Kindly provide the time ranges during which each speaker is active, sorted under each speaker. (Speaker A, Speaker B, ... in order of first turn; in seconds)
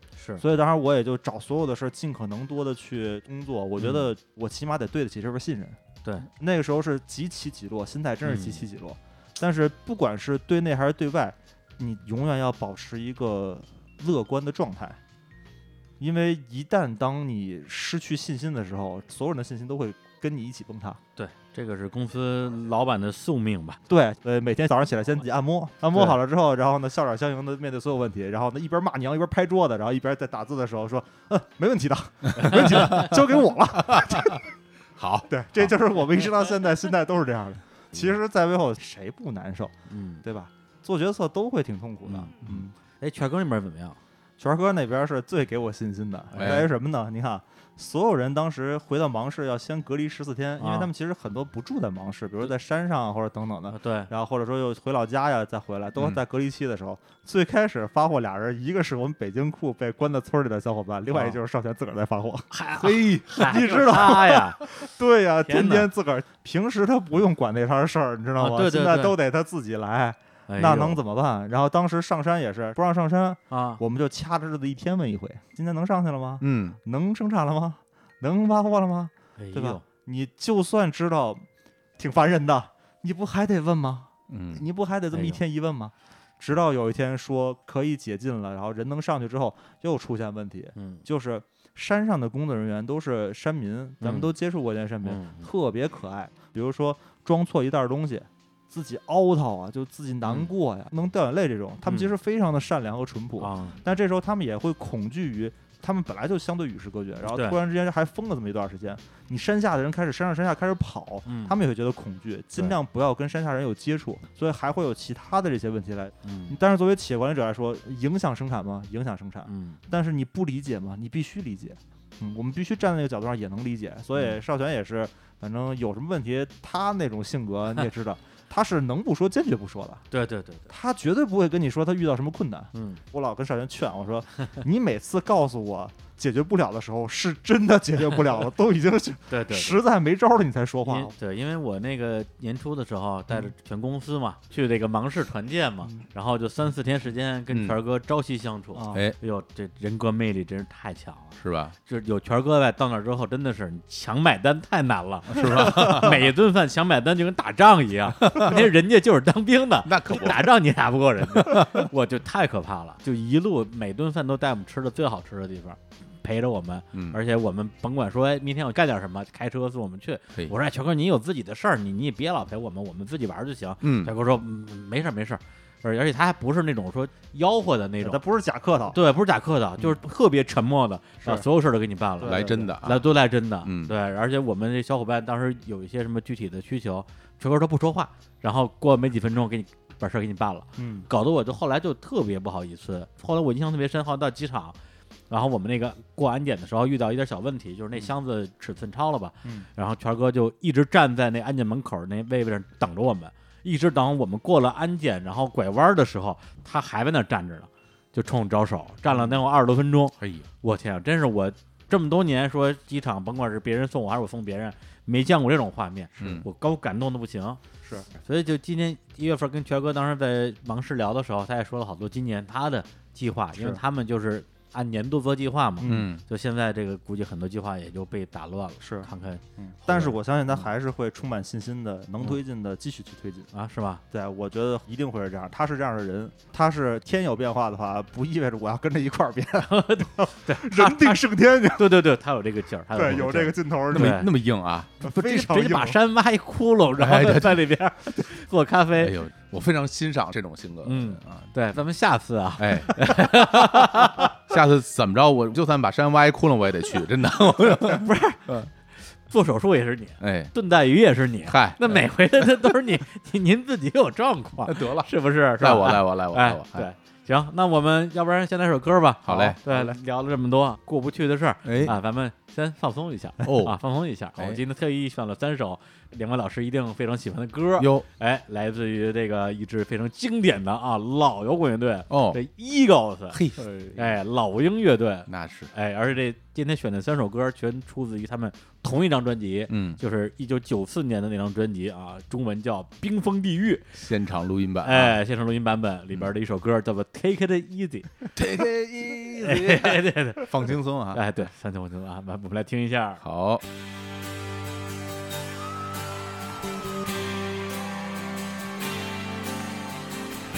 Speaker A: 0.2-0.4, 3.8-4.1, 8.2-8.6, 21.2-23.8, 32.5-33.1, 39.9-40.2, 43.0-44.0, 46.3-46.7, 50.6-50.9, 53.7-54.1, 61.1-61.4, 62.5-64.6, 65.5-65.9, 68.4-69.2, 70.5-71.0, 73.5-73.8, 79.4-79.8, 85.1-85.4, 90.8-91.0, 94.0-94.3, 95.0-95.5, 100.3-100.5, 101.9-102.1, 103.4-103.8, 107.3-107.6, 111.3-111.5, 116.2-116.6, 119.5-119.8, 130.1-130.7, 132.7-133.0, 139.3-139.8, 140.9-178.2, 178.9-194.8, 195.3-230.7, 233.5-234.0, 239.7-244.3, 245.0-249.1, 250.8-254.3, 257.9-258.6, 259.2-293.9, 294.8-298.1, 299.4-303.2
Speaker B: 0.4-15.0, 16.0-21.0, 23.9-34.4, 35.3-42.7, 44.4-62.5, 63.4-81.5, 82.0-130.1, 130.7-141.1, 148.8-149.0, 178.0-179.0, 182.2-182.6, 190.8-191.1, 209.1-209.4, 225.8-226.1, 228.8-233.5, 234.1-242.0, 242.9-244.2, 245.0-246.0
Speaker C: 32.8-33.1, 33.8-34.4, 35.0-35.7, 46.4-46.7, 62.8-63.3, 76.4-76.8, 84.3-84.7, 147.5-147.8, 151.4-151.8, 155.3-156.3, 158.2-158.6, 159.8-160.6, 161.3-161.9, 166.9-167.2, 173.8-174.1, 182.2-183.1, 183.6-183.9, 210.2-210.5, 216.2-216.5, 225.8-226.2, 243.9-244.9, 247.0-247.7, 249.0-251.5, 252.6-258.7, 260.2-260.5, 261.4-262.1, 264.6-266.9, 269.2-269.9, 271.6-271.9, 273.4-273.8, 277.8-278.1, 282.1-282.4, 283.3-284.2, 285.3-285.7, 289.7-290.0, 293.9-295.2, 298.4-301.3, 303.2-303.6